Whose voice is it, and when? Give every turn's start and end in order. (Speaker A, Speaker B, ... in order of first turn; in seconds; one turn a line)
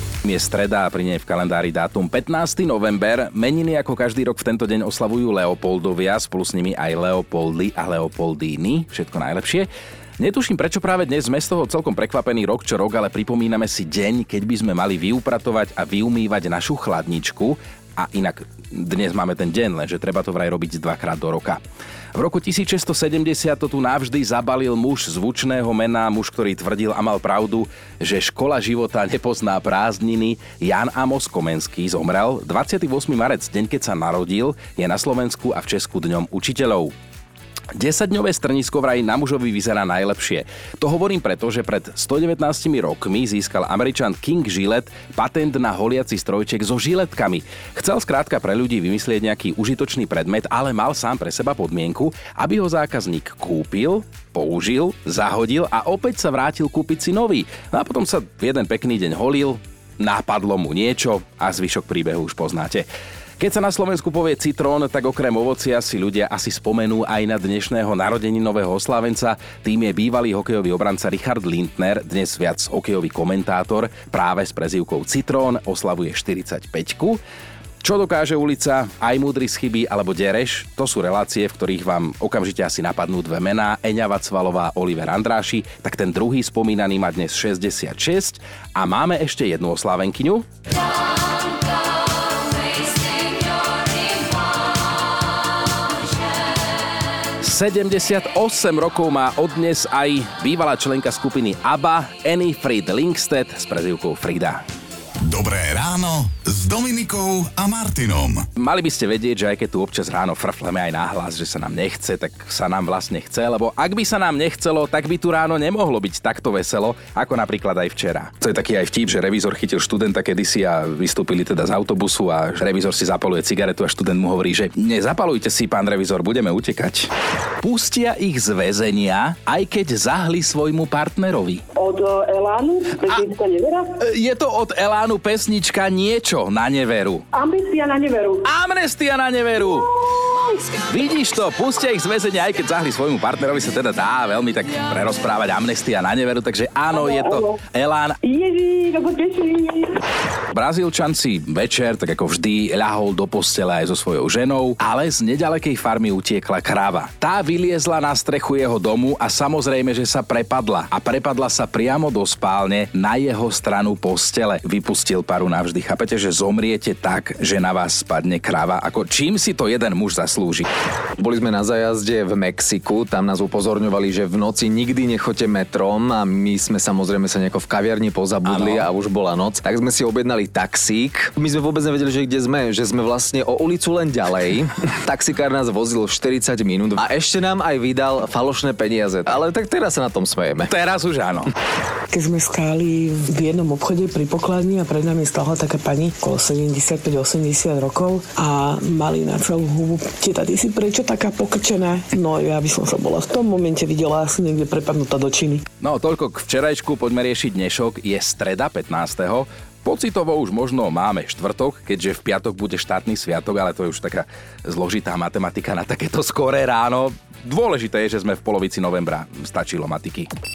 Speaker A: 0.2-9.7
Speaker A: 10.2-21.6
Speaker A: 22.1-36.9
Speaker A: 37.8-62.9
Speaker A: 63.4-77.2
Speaker A: 77.8-90.5
Speaker A: 97.4-104.6
Speaker B: 105.2-108.5
Speaker A: 108.6-127.1
Speaker A: 127.6-131.6
Speaker C: 131.8-133.9
Speaker A: 134.0-137.2
Speaker C: 137.3-138.4
Speaker A: 138.4-139.9
Speaker A: 140.9-148.2
Speaker C: 146.9-147.6
Speaker C: 148.2-150.0
Speaker A: 150.5-170.7
Speaker D: 171.2-190.7
Speaker A: 178.5-178.9
Speaker A: 190.7-191.5
Speaker E: 192.1-205.6
Speaker A: 205.8-220.3